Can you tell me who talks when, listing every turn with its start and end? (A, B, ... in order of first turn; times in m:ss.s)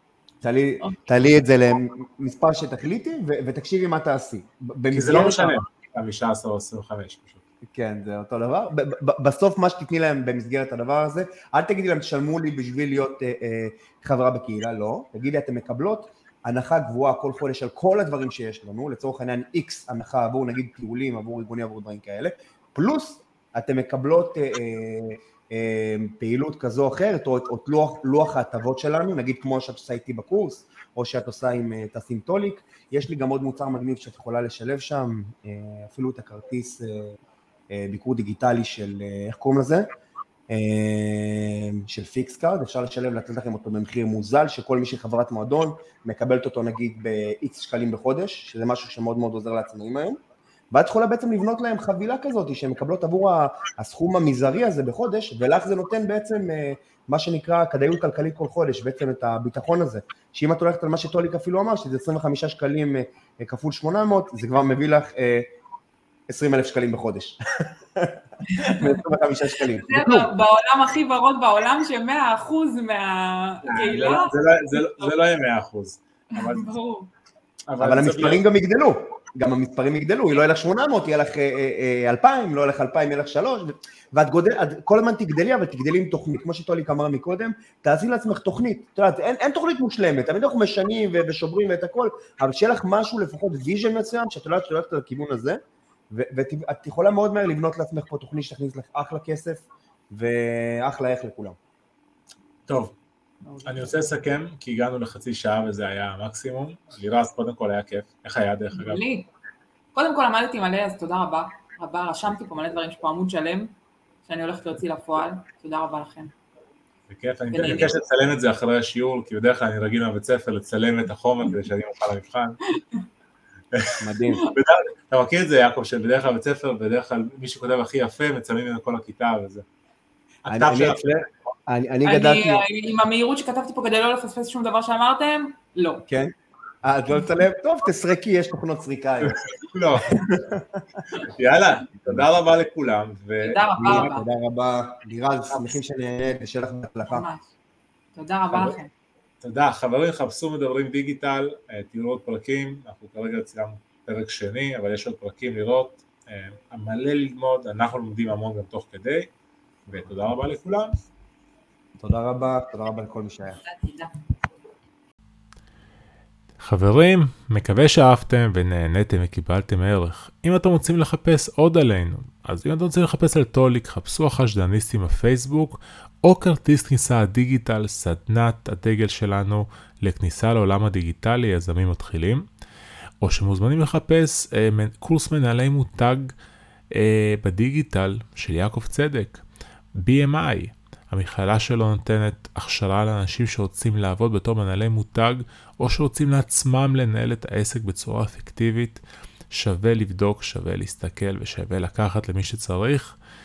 0:00.4-0:05.6 A
0:04.9-0:07.4 B
0:07.7-0:37.2 A
0:37.7-0:39.9 A
0:40.5-0:50.2 A
0:50.7-1:05.4 A
1:06.3-1:10.3 A
1:08.5-1:08.9 C
1:09.7-1:15.1 C
1:13.6-1:16.8 B
1:16.4-1:17.1 C
1:17.7-1:18.4 B
1:17.8-1:35.6 A
1:36.1-1:41.6 A
1:42.7-1:42.9 B
1:43.4-1:43.9 C
1:43.6-1:49.0 B
1:48.7-1:49.3 C
1:49.9-1:53.7 C
1:54.2-1:56.3 C
1:57.1-2:02.6 B
1:57.5-1:57.9 C
2:04.0-2:04.4 A
2:04.5-2:09.6 B
2:10.4-2:11.1 B
2:10.5-2:12.6 A
2:12.0-2:16.1 C
2:16.1-2:19.4 A
2:19.2-2:20.2 B
2:20.3-2:21.0 A
2:21.2-2:24.1 B
2:22.0-2:22.3 A
2:23.4-2:24.2 C
2:23.8-2:27.3 A
2:27.1-2:27.5 C
2:28.2-2:28.9 C
2:29.4-2:39.3 B
2:39.9-2:40.9 B
2:42.0-2:43.6 A
2:43.6-2:44.1 C
2:46.6-3:02.4 B
3:03.2-3:06.3 B
3:06.9-3:09.4 B
3:09.9-3:23.2 B